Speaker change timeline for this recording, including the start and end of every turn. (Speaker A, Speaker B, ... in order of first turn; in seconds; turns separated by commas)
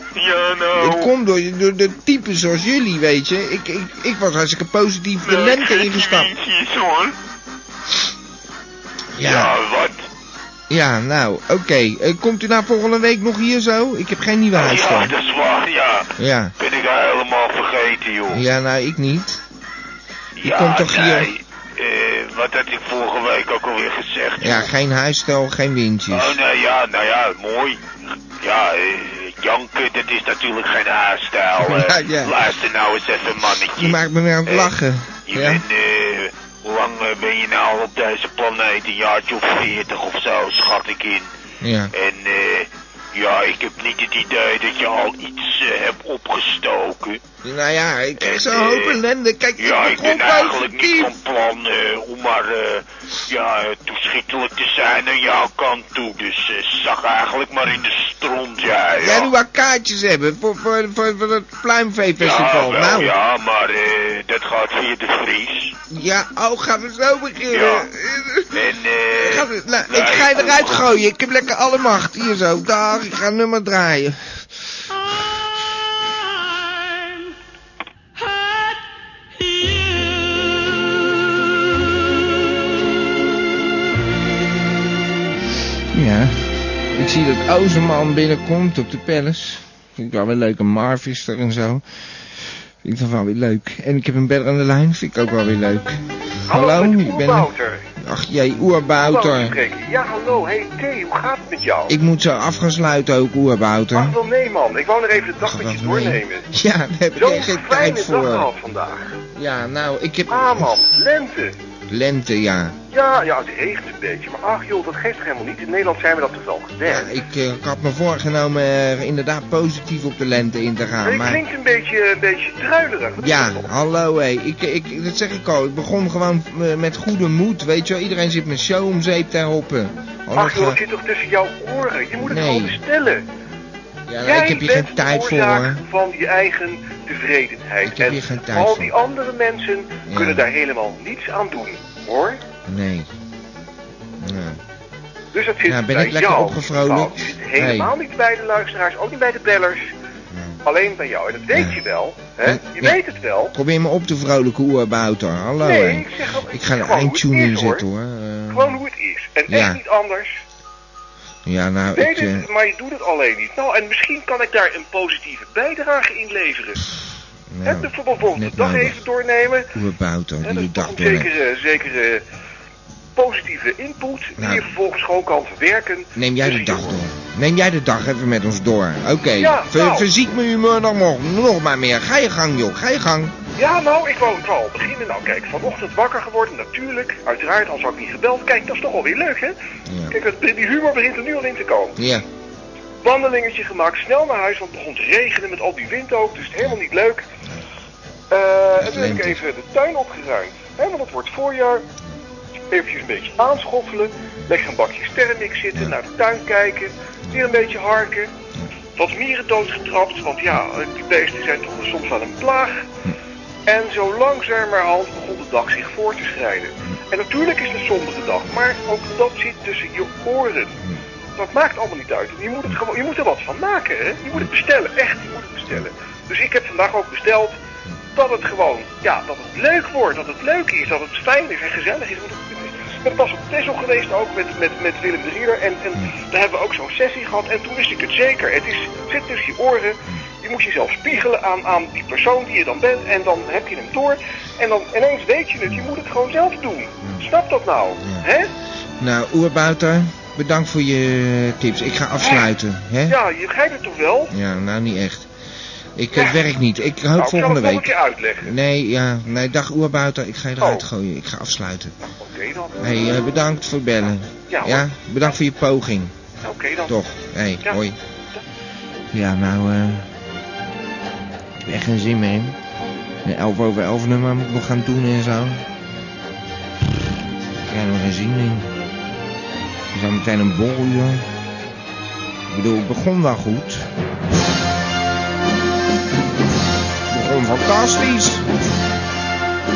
Speaker A: 0.1-1.1, Speaker B: 0.7-6.3, Speaker A: 5.2-7.2, Speaker B: 9.2-9.5, Speaker A: 9.2-10.0, Speaker B: 10.7-15.1, Speaker A: 14.5-18.4, Speaker B: 16.2-16.5, Speaker B: 18.3-19.4, Speaker A: 20.4-24.7, Speaker B: 20.4-21.3, Speaker B: 24.4-26.3, Speaker A: 26.1-27.8, Speaker A: 28.4-34.7, Speaker B: 31.6-32.3, Speaker B: 33.8-35.6, Speaker A: 35.3-41.3, Speaker B: 41.6-41.9, Speaker A: 41.9-47.2, Speaker B: 47.4-51.1, Speaker A: 48.2-49.0, Speaker A: 49.6-59.3, Speaker B: 59.0-63.1, Speaker A: 62.2-65.7, Speaker B: 65.9-68.6, Speaker A: 67.5-67.9, Speaker A: 68.5-70.9, Speaker B: 69.2-74.5, Speaker B: 85.9-99.5, Speaker C: 96.5-97.8, Speaker C: 99.0-101.9, Speaker B: 101.9-104.2, Speaker C: 103.9-106.4, Speaker B: 105.4-108.5, Speaker C: 107.2-109.0, Speaker B: 109.3-110.8, Speaker C: 110.3-111.5, Speaker B: 111.9-112.8, Speaker C: 112.9-117.1, Speaker B: 116.8-121.4, Speaker C: 121.0-123.7, Speaker B: 123.2-130.8, Speaker C: 130.3-133.2, Speaker B: 132.2-132.8, Speaker B: 134.1-135.8, Speaker C: 134.2-142.4, Speaker B: 137.8-138.9, Speaker B: 140.1-140.4, Speaker B: 142.7-143.1, Speaker B: 144.2-144.6, Speaker C: 145.3-149.8, Speaker B: 145.6-147.9, Speaker B: 150.3-150.6, Speaker C: 150.7-153.5, Speaker B: 151.5-151.8, Speaker B: 152.4-153.0, Speaker B: 153.5-158.8, Speaker C: 155.6-157.8, Speaker C: 158.5-160.3, Speaker B: 159.5-159.8, Speaker B: 161.4-162.5, Speaker C: 161.9-166.8, Speaker B: 167.5-169.0, Speaker C: 167.7-169.6, Speaker B: 169.7-171.3, Speaker C: 170.4-172.2, Speaker C: 173.2-176.9, Speaker B: 174.4-174.7, Speaker B: 176.1-183.3, Speaker C: 179.4-180.0, Speaker C: 183.6-189.5, Speaker B: 189.8-190.1, Speaker C: 190.1-191.9, Speaker B: 191.9-192.2, Speaker C: 193.0-197.2, Speaker C: 198.3-201.8, Speaker B: 198.8-199.4, Speaker C: 202.7-208.3, Speaker C: 209.0-212.8, Speaker C: 213.7-220.7, Speaker C: 221.4-227.5, Speaker C: 228.2-248.5, Speaker B: 247.0-247.3, Speaker B: 248.0-248.3, Speaker B: 249.0-253.2, Speaker C: 253.1-254.3, Speaker B: 254.3-255.3, Speaker B: 255.9-261.9, Speaker C: 257.2-258.5, Speaker C: 262.2-263.1, Speaker B: 262.8-266.1, Speaker C: 264.5-264.8, Speaker C: 266.4-266.9, Speaker B: 266.9-268.0, Speaker B: 269.1-270.1, Speaker B: 271.6-272.6, Speaker B: 273.2-275.6, Speaker B: 277.7-278.7, Speaker B: 279.9-281.3, Speaker B: 282.5-283.9, Speaker B: 287.1-288.4